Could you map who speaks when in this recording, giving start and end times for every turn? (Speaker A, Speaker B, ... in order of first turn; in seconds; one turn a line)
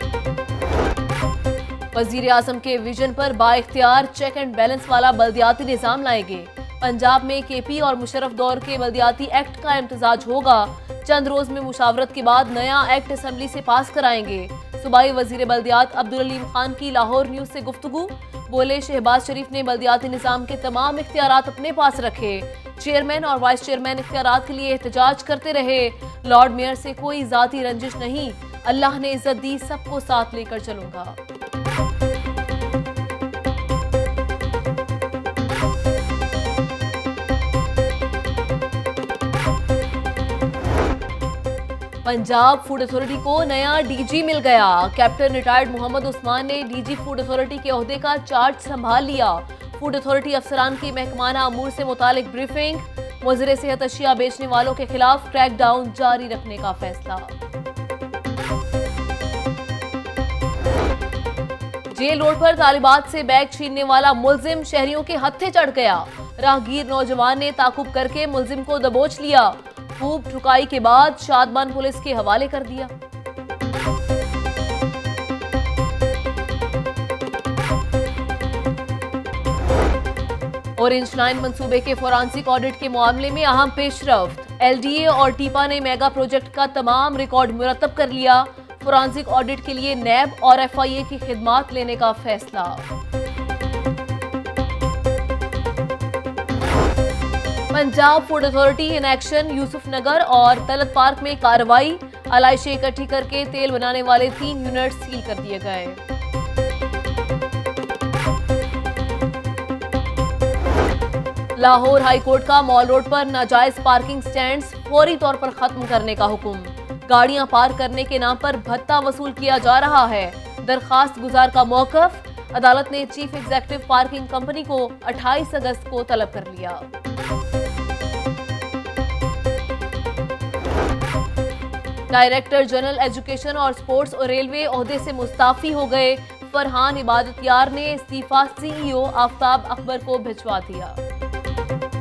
Speaker A: 1.9-31.2
Speaker A: 42.0-57.3
Speaker A: 61.9-72.9
Speaker A: 80.8-92.9
Speaker A: 97.7-106.0
Speaker A: 111.6-126.9
Speaker A: 132.1-141.0